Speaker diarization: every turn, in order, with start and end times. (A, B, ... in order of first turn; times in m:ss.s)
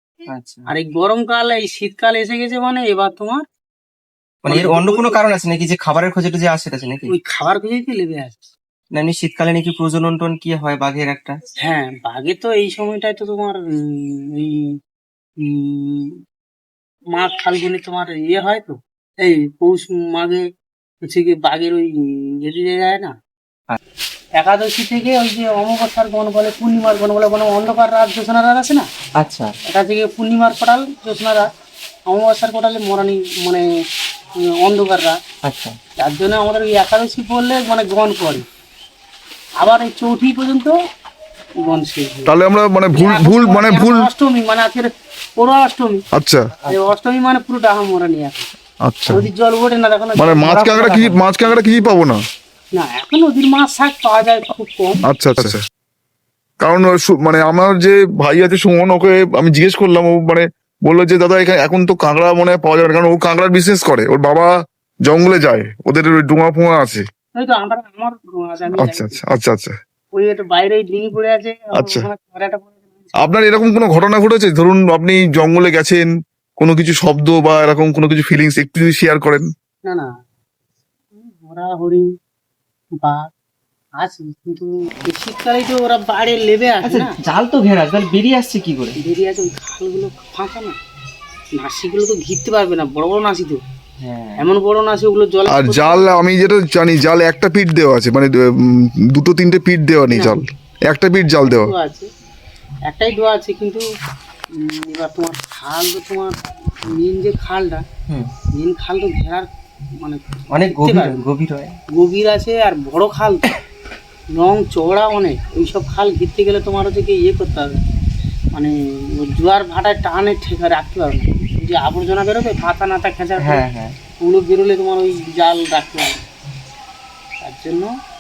0:00.3-0:00.7 A
0:00.7-0:03.4 B
0:04.4-0:07.1 A
0:04.5-0:05.2 B
0:07.1-0:08.5 B
0:08.9-0:11.4 A
0:11.6-0:14.8 B
0:15.4-0:16.2 B
0:17.1-0:20.4 B
0:21.0-0:23.1 B
0:24.4-0:28.9 B
0:29.2-0:29.5 A
0:29.7-0:31.5 B
0:32.1-0:33.7 B
0:34.6-0:35.2 B
0:35.4-0:35.8 A
0:36.0-0:38.4 B
0:39.6-0:40.8 B
0:41.6-0:42.3 B
0:42.3-0:44.1 C
0:42.9-0:46.0 B
0:46.1-0:46.5 C
0:46.7-0:48.5 B
0:48.8-0:49.3 C
0:49.1-0:51.6 B
0:50.2-0:52.2 C
0:50.8-0:51.0 A
0:52.8-0:55.0 B
0:55.1-0:55.6 C
0:56.6-1:04.5 C
1:05.1-1:07.0 C
1:07.4-1:09.2 B
1:08.8-1:09.8 C
1:10.1-1:13.3 B
1:11.8-1:12.1 C
1:13.2-1:16.1 C
1:16.6-1:19.5 C
1:21.1-1:22.1 B
1:23.0-1:23.3 B
1:24.0-1:27.1 B
1:26.8-1:29.0 A
1:29.0-1:30.8 B
1:31.6-1:33.6 B
1:34.0-1:34.5 A
1:34.4-1:36.1 B
1:35.5-1:41.7 C
1:40.1-1:40.4 B
1:41.4-1:42.1 B
1:42.9-1:43.8 B
1:44.6-1:46.4 B
1:46.9-1:47.8 B
1:48.6-1:51.2 B
1:50.5-1:51.7 A
1:52.0-1:53.5 B
1:54.3-1:57.8 B
1:58.5-2:03.6 B
2:03.4-2:04.0 A
2:04.2-2:06.2 B
2:07.4-2:07.9 B